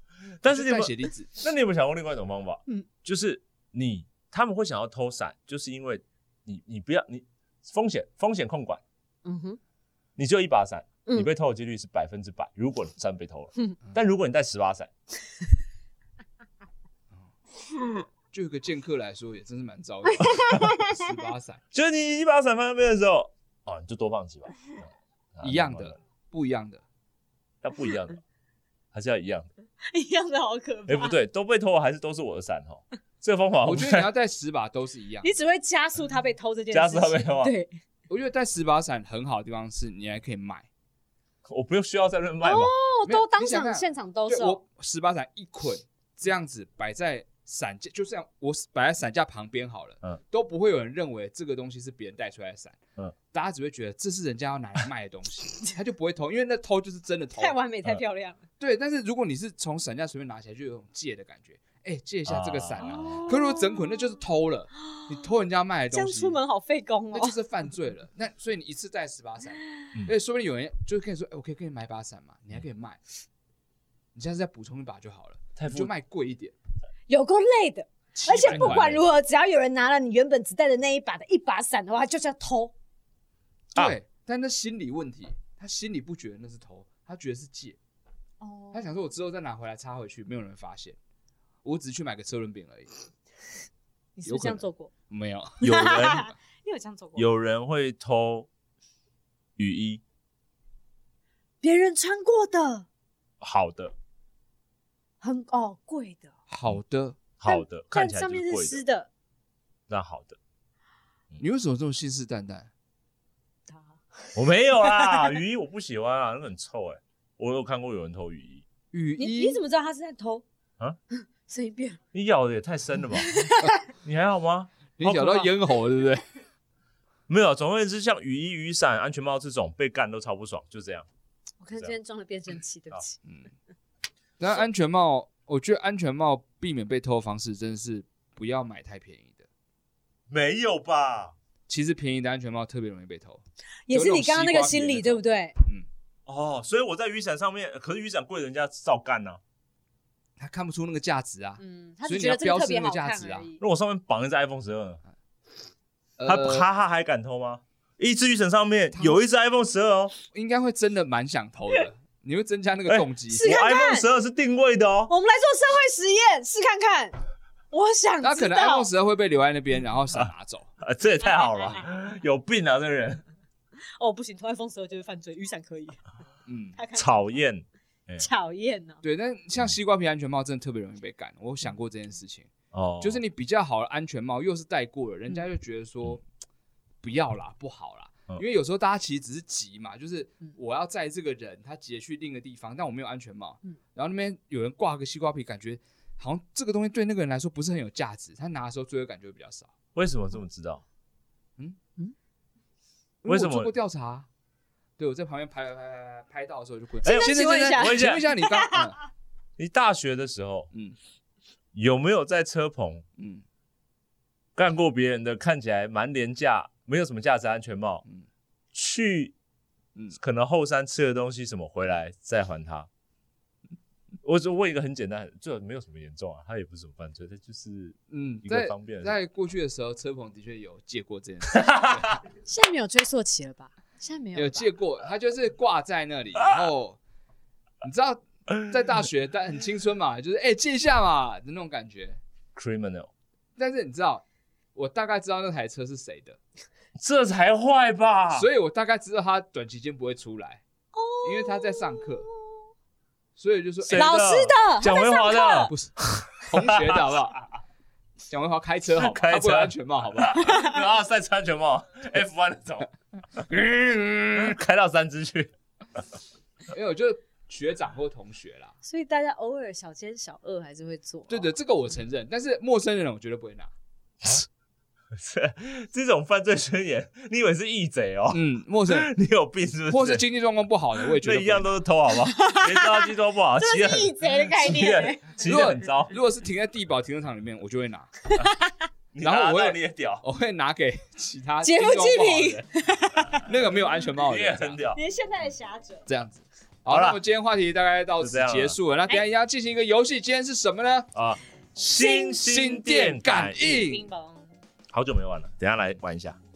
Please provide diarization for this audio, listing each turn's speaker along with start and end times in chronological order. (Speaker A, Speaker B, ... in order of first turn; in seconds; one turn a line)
Speaker A: 0.4-8.8
Speaker B: 0.4-1.3
Speaker C: 9.2-9.6
Speaker A: 10.2-14.9
Speaker B: 18.3-21.6
Speaker C: 20.2-20.9
Speaker A: 21.7-26.0
Speaker B: 25.4-26.8
Speaker A: 27.6-28.2
Speaker A: 28.9-29.5
Speaker C: 29.9-31.2
Speaker A: 30.9-34.1
Speaker B: 33.6-35.3
Speaker C: 35.2-37.7
Speaker A: 36.7-37.5
Speaker B: 38.1-40.7
Speaker A: 41.5-42.7
Speaker C: 42.4-44.6
Speaker B: 43.1-52.8
Speaker B: 53.3-57.6
Speaker C: 57.4-58.4
Speaker B: 58.6-66.4
Speaker A: 62.3-63.2
Speaker C: 62.9-63.9
Speaker C: 65.9-67.4
Speaker B: 67.1-73.0
Speaker B: 74.2-76.5
Speaker A: 75.6-75.9
Speaker C: 77.1-82.7
Speaker B: 78.1-79.0
Speaker A: 78.5-78.8
Speaker B: 83.8-87.8
Speaker C: 88.4-88.8
Speaker B: 88.7-91.0
Speaker B: 91.6-92.9
Speaker C: 94.2-94.9
Speaker B: 94.3-95.8
Speaker A: 95.6-96.3
Speaker C: 95.7-97.3
Speaker A: 97.2-98.5
Speaker A: 99.6-100.0
Speaker C: 101.6-102.9
Speaker A: 103.4-103.9
Speaker C: 105.2-106.3
Speaker B: 106.5-107.2
Speaker A: 107.4-108.8
Speaker C: 107.5-109.1
Speaker A: 109.9-110.4
Speaker B: 111.4-112.7
Speaker A: 114.3-118.7
Speaker C: 115.0-115.3
Speaker B: 118.9-119.6
Speaker C: 119.2-120.4
Speaker C: 121.1-122.0
Speaker A: 122.1-125.5
Speaker C: 123.2-123.7
Speaker B: 125.0-126.2
Speaker A: 127.3-131.1
Speaker C: 131.6-133.2
Speaker B: 134.4-139.5
Speaker A: 140.3-141.3
Speaker B: 141.7-145.9
Speaker C: 143.9-145.6
Speaker A: 146.3-149.4
Speaker B: 150.4-153.5
Speaker C: 151.6-153.6
Speaker A: 153.6-155.0
Speaker B: 156.2-156.7
Speaker A: 156.2-160.1
Speaker B: 158.9-159.2
Speaker B: 160.3-163.5
Speaker A: 162.9-165.1
Speaker C: 163.3-164.1
Speaker C: 165.1-167.2
Speaker C: 167.7-168.9
Speaker B: 168.2-170.7
Speaker A: 170.1-173.2
Speaker C: 174.0-176.0
Speaker B: 176.5-176.8
Speaker C: 176.8-177.2
Speaker A: 177.0-178.3
Speaker C: 178.2-179.0
Speaker B: 179.0-186.2
Speaker A: 182.7-183.2
Speaker B: 187.0-199.7
Speaker A: 199.9-200.8
Speaker B: 203.2-204.3
Speaker A: 203.3-203.7
Speaker B: 205.0-209.0
Speaker C: 207.0-208.9
Speaker A: 207.1-208.2
Speaker A: 209.6-210.7
Speaker A: 211.7-213.1
Speaker B: 213.2-213.4
Speaker A: 214.6-218.0
Speaker A: 218.7-219.3
Speaker A: 220.2-222.9
Speaker A: 224.2-229.2
Speaker B: 228.1-232.1
Speaker A: 231.6-232.2
Speaker C: 232.5-234.7
Speaker B: 234.4-237.0
Speaker B: 237.8-242.2
Speaker A: 242.6-243.1
Speaker B: 243.6-244.2
Speaker B: 244.8-246.4
Speaker A: 247.0-248.5
Speaker B: 248.3-250.6
Speaker C: 250.9-252.3
Speaker B: 251.2-252.3
Speaker B: 253.4-254.2
Speaker A: 253.8-257.1
Speaker C: 253.9-255.7
Speaker B: 255.7-257.4
Speaker B: 258.3-260.4
Speaker A: 259.0-263.6
Speaker C: 260.4-260.7
Speaker B: 263.5-264.4
Speaker A: 264.3-265.5
Speaker B: 266.7-268.7
Speaker C: 268.8-271.5
Speaker B: 271.3-273.7
Speaker A: 275.1-280.2
Speaker B: 278.3-279.1
Speaker B: 279.9-281.7
Speaker A: 281.1-286.1
Speaker C: 282.3-283.1
Speaker C: 283.6-285.3
Speaker B: 285.4-288.1
Speaker C: 288.4-288.7
Speaker A: 289.1-290.2
Speaker B: 289.2-292.7
Speaker C: 291.6-293.5
Speaker B: 293.4-294.8
Speaker A: 294.2-295.0
Speaker C: 294.9-296.1
Speaker B: 296.1-301.1
Speaker A: 296.9-297.2
Speaker A: 298.2-298.8
Speaker A: 301.1-303.8
Speaker B: 302.0-304.1
Speaker C: 303.6-304.5
Speaker A: 304.9-306.4